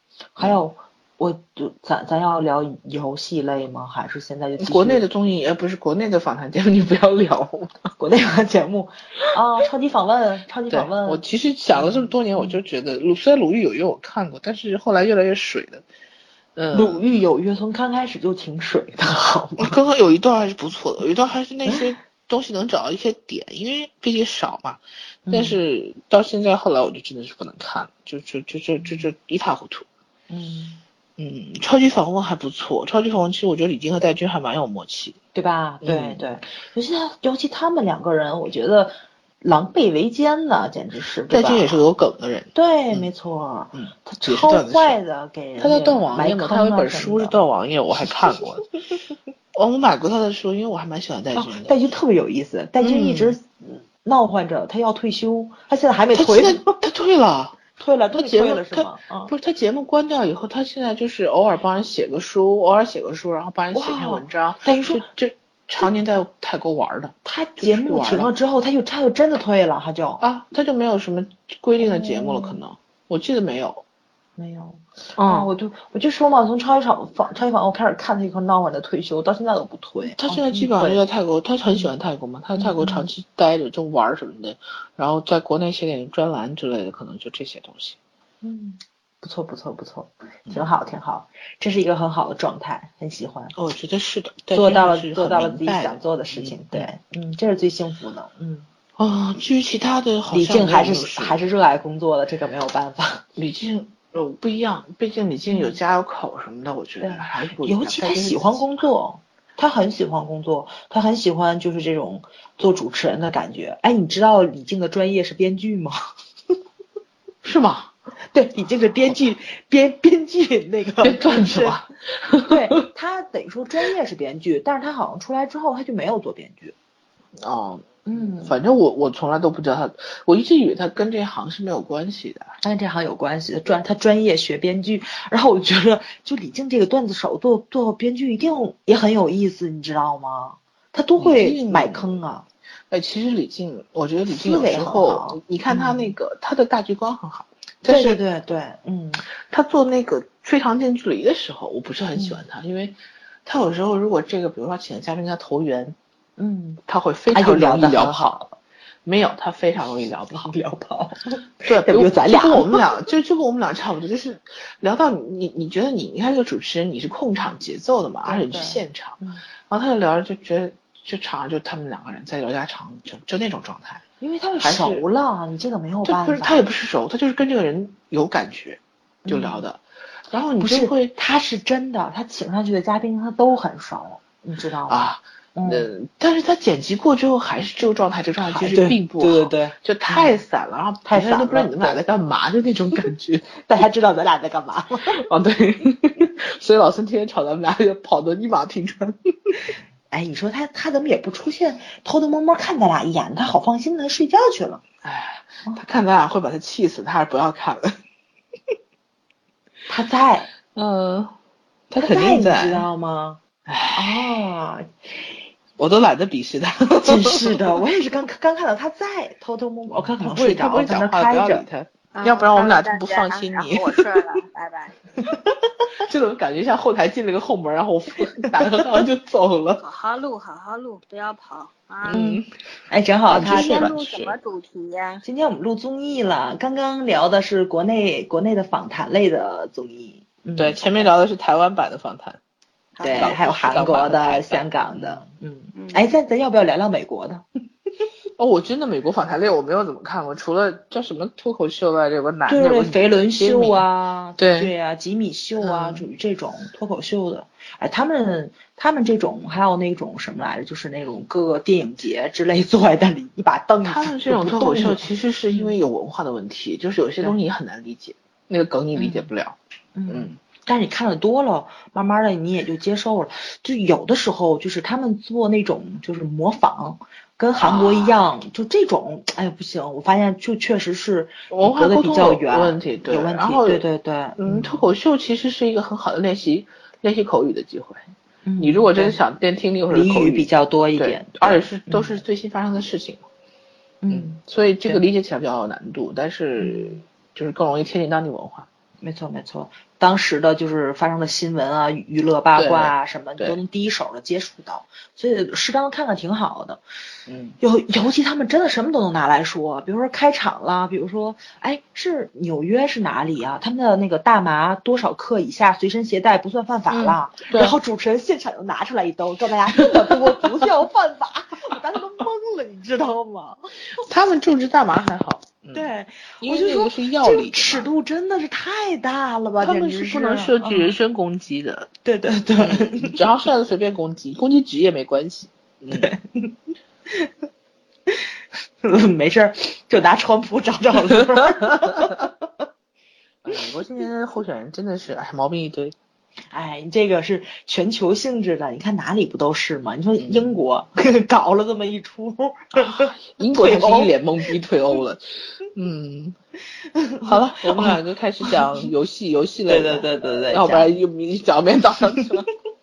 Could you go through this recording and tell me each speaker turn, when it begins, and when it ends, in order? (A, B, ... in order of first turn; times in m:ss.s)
0:00.4-0:05.0 A
0:04.6-0:07.9 B
0:08.0-0:12.6 A
0:10.7-0:15.8 B
0:16.6-0:17.0 B
0:16.7-0:19.8 A
0:19.6-0:29.9 B
0:25.3-0:25.6 A
0:30.3-0:30.8 A
0:31.2-0:35.2 B
0:35.3-0:41.8 A
0:35.8-0:36.2 B
0:41.3-0:43.1 B
0:42.5-0:47.4 A
0:43.7-0:45.0 B
0:45.6-0:48.7 B
0:49.5-0:51.8 B
0:51.4-0:56.8 A
0:52.8-0:53.4 B
0:56.1-0:57.6 B
0:57.8-0:59.3 A
0:58.1-1:08.3 B
1:03.7-1:05.1 A
1:07.2-1:10.2 A
1:10.2-1:13.8 B
1:11.8-1:12.6 A
1:14.4-1:21.0 A
1:15.2-1:15.5 B
1:20.2-1:28.0 B
1:22.6-1:23.1 A
1:28.4-1:33.5 A
1:33.5-1:36.9 B
1:34.5-1:38.7 A
1:39.0-1:41.4 B
1:40.3-1:43.2 A
1:43.4-1:48.6 B
1:45.5-1:45.8 A
1:47.0-1:56.0 A
1:57.4-1:57.9 B
1:58.3-2:01.8 A
2:01.0-2:02.9 B
2:02.5-2:06.7 A
2:07.4-2:12.5 B
2:08.1-2:08.6 A
2:12.6-2:22.4 A
2:21.2-2:22.2 B
2:22.9-2:28.2 B
2:24.3-2:26.2 A
2:27.9-2:29.2 A
2:29.4-2:36.0 B
2:32.2-2:32.4 A
2:36.4-2:38.6 A
2:36.9-2:38.4 B
2:39.0-2:40.5 B
2:40.3-2:42.8 A
2:41.6-2:54.0 B
2:48.2-2:49.4 A
2:54.2-2:56.6 A
2:54.6-2:55.0 B
2:56.0-3:01.2 B
2:59.2-2:59.6 A
3:00.6-3:05.9 A
3:04.9-3:13.5 B
3:08.4-3:10.4 A
3:11.1-3:12.0 A
3:13.6-3:15.2 A
3:15.1-3:19.6 B
3:20.1-3:24.8 A
3:25.0-3:28.0 B
3:29.9-3:30.5 A
3:30.7-3:31.3 B
3:31.9-3:32.9 B
3:32.0-3:33.4 A
3:33.7-3:34.4 B
3:34.0-3:35.2 A
3:35.8-3:37.7 B
3:37.0-3:41.6 A
3:39.9-3:44.2 B
3:42.1-3:45.0 C
3:46.0-3:49.8 B
3:49.8-3:52.2 C
3:52.0-3:52.5 B
3:52.1-3:53.9 A
3:53.3-3:54.4 B
3:53.3-3:55.2 C
3:55.2-4:01.1 A
4:00.6-4:02.4 B
4:03.0-4:03.4 C
4:03.0-4:07.4 A
4:03.1-4:05.3 B
4:05.7-4:06.0 C
4:08.4-4:13.8 B
4:12.5-4:25.7 A
4:14.4-4:14.7 B
4:15.6-4:16.0 B
4:23.8-4:29.6 B
4:29.0-4:29.3 A
4:30.0-4:44.8 A
4:30.1-4:30.4 B
4:37.6-4:38.2 B
4:41.5-4:43.8 B
4:44.4-4:48.0 B
4:48.4-4:49.2 A
4:48.6-4:53.3 B
4:49.9-4:52.2 A
4:54.0-4:55.0 A
4:54.1-4:58.7 B
4:56.6-4:57.0 A
4:59.0-5:06.8 A
5:02.6-5:03.6 B
5:07.3-5:07.6 B
5:07.6-5:23.7 A
5:16.9-5:17.8 B
5:19.8-5:20.2 B
5:24.0-5:25.9 B
5:25.7-5:31.0 A
5:26.4-5:27.9 B
5:29.6-5:31.9 B
5:32.0-5:33.2 A
5:32.6-5:36.1 B
5:35.9-5:36.6 A
5:38.1-5:42.5 A
5:43.4-5:46.0 B
5:46.5-5:54.1 A
5:50.2-5:50.6 B
5:52.8-5:56.4 B
5:56.9-5:58.6 A
5:57.2-6:02.5 B
5:59.7-6:00.9 A